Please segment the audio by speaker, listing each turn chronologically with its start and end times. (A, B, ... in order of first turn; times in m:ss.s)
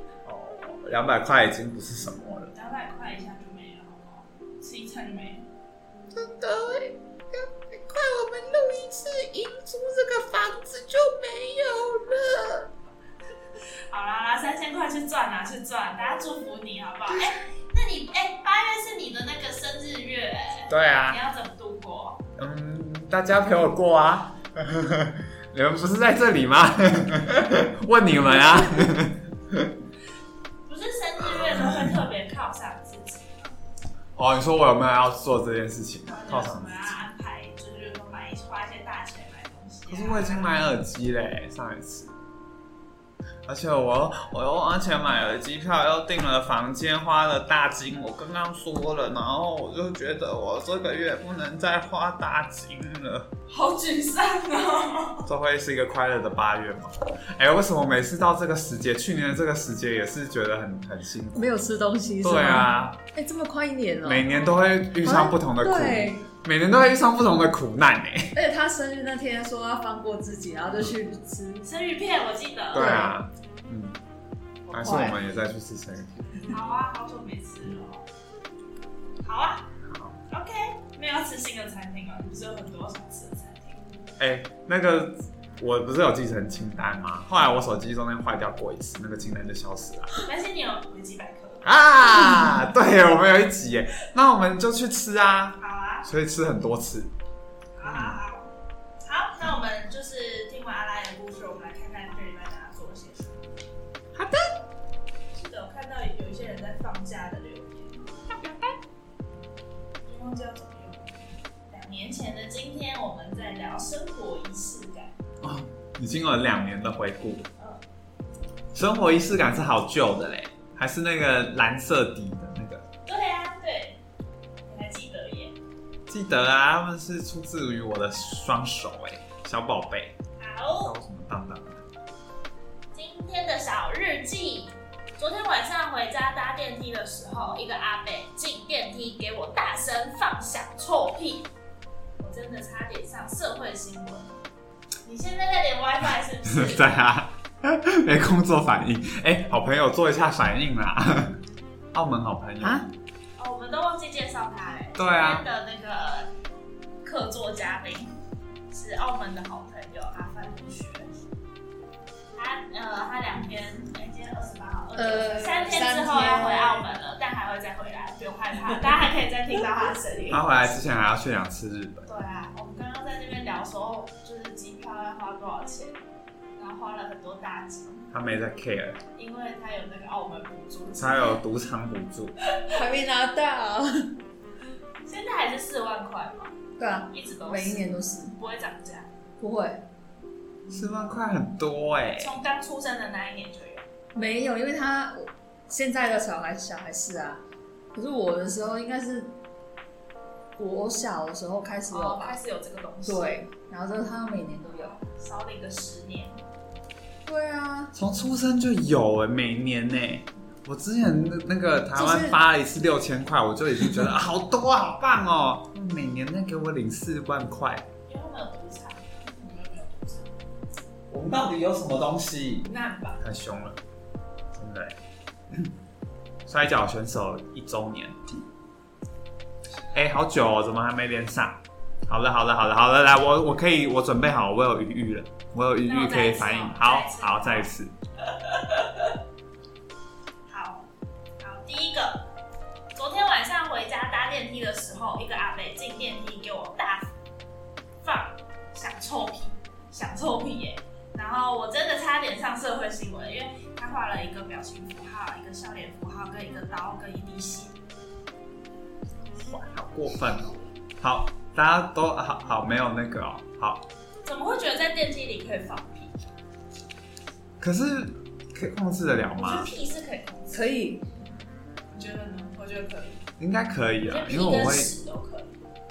0:00.2-0:02.5 A
0:02.5-0:05.4 B
0:06.1-0:12.6 A
0:13.9-0:22.2 B
0:20.7-0:21.2 A
0:22.4-0:29.8 A
0:30.7-0:33.6 B
0:31.2-0:32.0 A
0:34.1-0:37.0 A
0:36.0-0:40.6 B
0:39.8-0:42.1 A
0:43.4-0:53.3 A
0:53.5-0:55.3 B
0:55.2-1:01.6 A
1:01.3-1:04.3 C
1:02.2-1:03.0 A
1:04.0-1:08.3 A
1:04.3-1:04.9 B
1:05.0-1:06.3 C
1:08.3-1:11.7 C
1:11.6-1:13.0 B
1:12.7-1:13.2 C
1:12.7-1:14.0 A
1:14.7-1:15.2 C
1:14.7-1:16.5 A
1:16.5-1:18.0 B
1:19.2-1:19.7 B
1:19.8-1:20.2 A
1:20.3-1:23.8 B
1:24.2-1:30.1 A
1:30.2-1:31.7 B
1:31.6-1:37.1 A
1:35.6-1:36.1 B
1:37.8-1:38.5 B
1:37.8-1:38.2 A
1:39.0-1:43.5 B
1:44.1-1:44.4 A
1:45.3-1:48.1 B
1:48.3-1:48.7 A
1:50.0-1:51.1 B
1:51.7-1:55.2 B
1:55.4-1:57.5 A
1:58.7-2:02.8 A
2:03.0-2:04.0 B
2:04.6-2:05.5 B
2:06.1-2:10.2 A
2:10.4-2:10.9 B
2:10.8-2:11.8 A
2:12.9-2:21.5 B
2:22.2-2:24.3 B
2:25.0-2:26.9 B
2:26.5-2:31.4 A
2:31.9-2:32.9 A
2:32.6-2:32.9 C
2:33.4-2:36.3 B
2:35.0-2:35.4 A
2:37.0-2:38.1 B
2:38.7-2:41.1 B
2:42.3-2:50.4 B
2:45.0-2:46.8 C
2:50.3-2:52.1 A
2:52.0-2:56.0 B
2:56.6-2:58.1 B
2:58.1-2:59.0 A
2:59.1-3:01.4 B
3:01.0-3:02.4 A
3:02.7-3:04.1 C
3:05.0-3:06.6 B
3:06.8-3:08.3 C
3:07.1-3:09.1 B
3:09.4-3:09.8 C
3:10.7-3:12.3 A
3:12.2-3:13.8 B
3:14.1-3:17.4 C
3:17.9-3:19.3 C
3:20.6-3:22.4 C
3:21.9-3:23.4 B
3:23.0-3:24.9 C
3:24.6-3:26.4 B
3:27.2-3:27.9 C
3:27.9-3:37.9 A
3:31.9-3:32.4 C
3:38.1-3:40.3 B
3:41.1-3:43.8 A
3:42.6-3:43.2 B
3:44.5-3:45.0 A
3:46.4-3:48.4 A
3:49.9-3:57.9 A
3:55.8-3:57.7 B
3:58.3-3:59.1 B
4:00.5-4:00.9 B
4:01.4-4:02.3 B
4:02.9-4:07.1 B
4:08.0-4:17.8 B
4:19.3-4:23.8 A
4:24.2-4:26.2 B
4:27.6-4:29.7 A
4:29.4-4:30.7 B
4:30.5-4:31.0 C
4:31.9-4:33.2 B
4:33.4-4:34.9 A
4:34.0-4:35.6 B